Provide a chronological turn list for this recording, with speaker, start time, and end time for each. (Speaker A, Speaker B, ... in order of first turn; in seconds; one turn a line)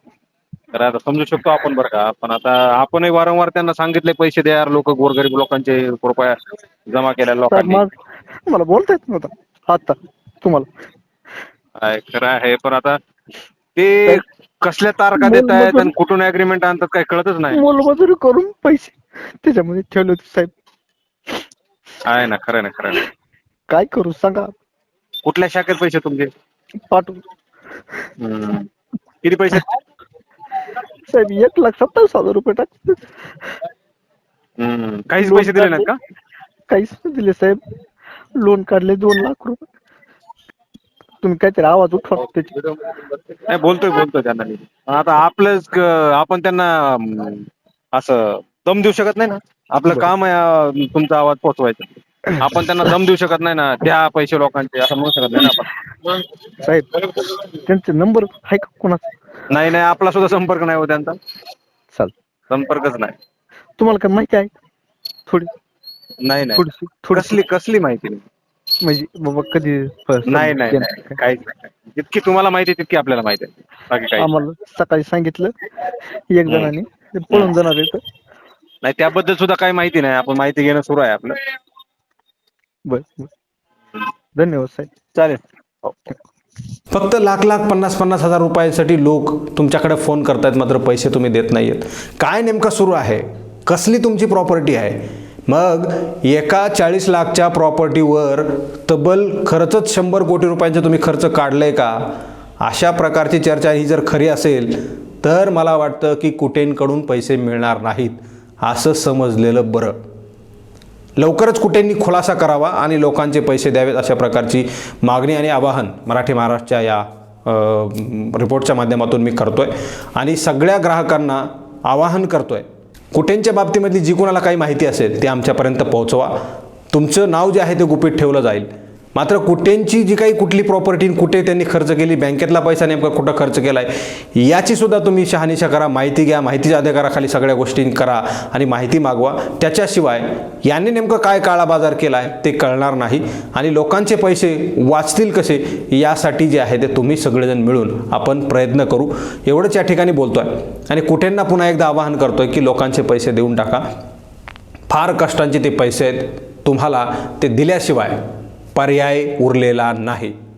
Speaker A: 0.7-7.8
Speaker B: 7.5-7.9
Speaker B: 8.5-10.7
Speaker A: 11.8-13.0
Speaker A: 13.8-17.6
Speaker B: 15.1-15.9
Speaker B: 17.5-20.5
Speaker A: 22.0-23.0
Speaker B: 23.7-24.5
Speaker A: 25.2-26.3
Speaker B: 26.9-27.2
Speaker A: 28.2-28.7
Speaker A: 29.2-29.7
Speaker B: 31.1-33.1
Speaker A: 34.6-36.0
Speaker B: 35.2-35.9
Speaker B: 36.7-37.6
Speaker B: 38.4-39.6
Speaker B: 41.2-42.7
Speaker A: 43.5-55.7
Speaker B: 56.6-56.9
Speaker B: 57.6-59.1
Speaker A: 59.5-61.2
Speaker A: 62.5-63.1
Speaker B: 63.8-64.5
Speaker A: 66.2-66.6
Speaker B: 66.5-67.4
Speaker A: 67.1-68.2
Speaker B: 68.8-71.2
Speaker A: 70.2-74.3
Speaker B: 74.2-75.5
Speaker B: 76.3-78.0
Speaker A: 78.8-81.4
Speaker B: 82.8-83.3
Speaker B: 84.3-84.9
Speaker A: 85.1-85.9
Speaker C: 86.9-110.0
Speaker C: 111.2-126.3
Speaker C: 126.9-153.9
Speaker C: 154.9-158.2
Speaker C: 158.7-160.3